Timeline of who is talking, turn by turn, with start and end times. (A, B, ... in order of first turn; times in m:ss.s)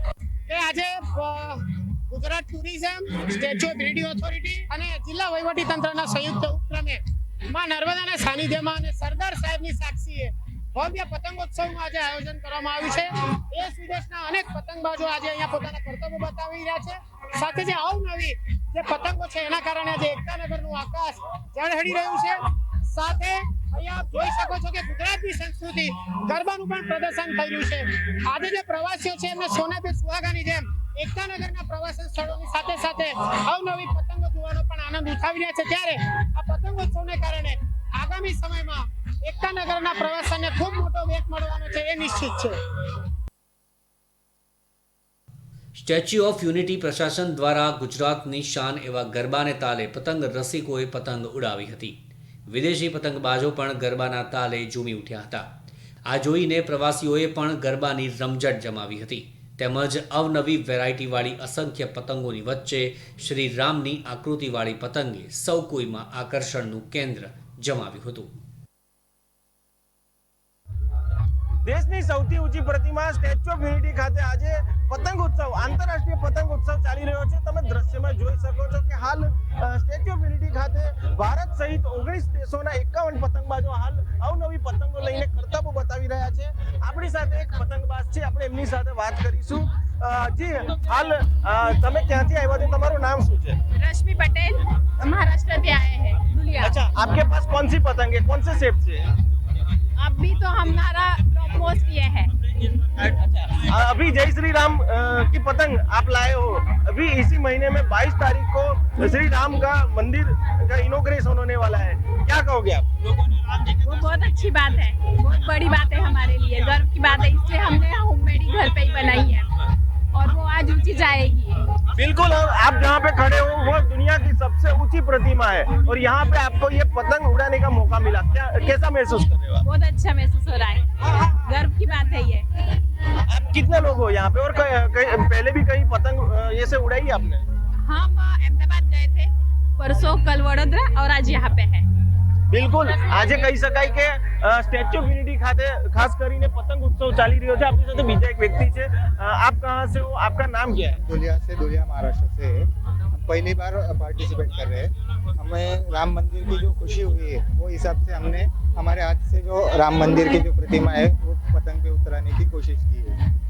0:00.5-0:42.6 A
0:45.7-0:52.0 B
0:52.5-0:55.5 B
0:56.0-1:08.3 B
1:11.6-1:33.6 C
1:33.8-1:36.8 D
1:36.6-1:39.0 C
1:40.0-1:42.3 D
1:43.0-1:52.9 C
1:53.8-1:59.5 D
2:00.1-2:01.7 D
2:01.9-2:09.6 C
2:09.6-2:12.5 D
2:13.3-2:17.4 C
2:17.8-2:21.9 D
2:22.5-2:31.0 C
2:22.8-2:23.5 D
2:30.8-2:43.1 E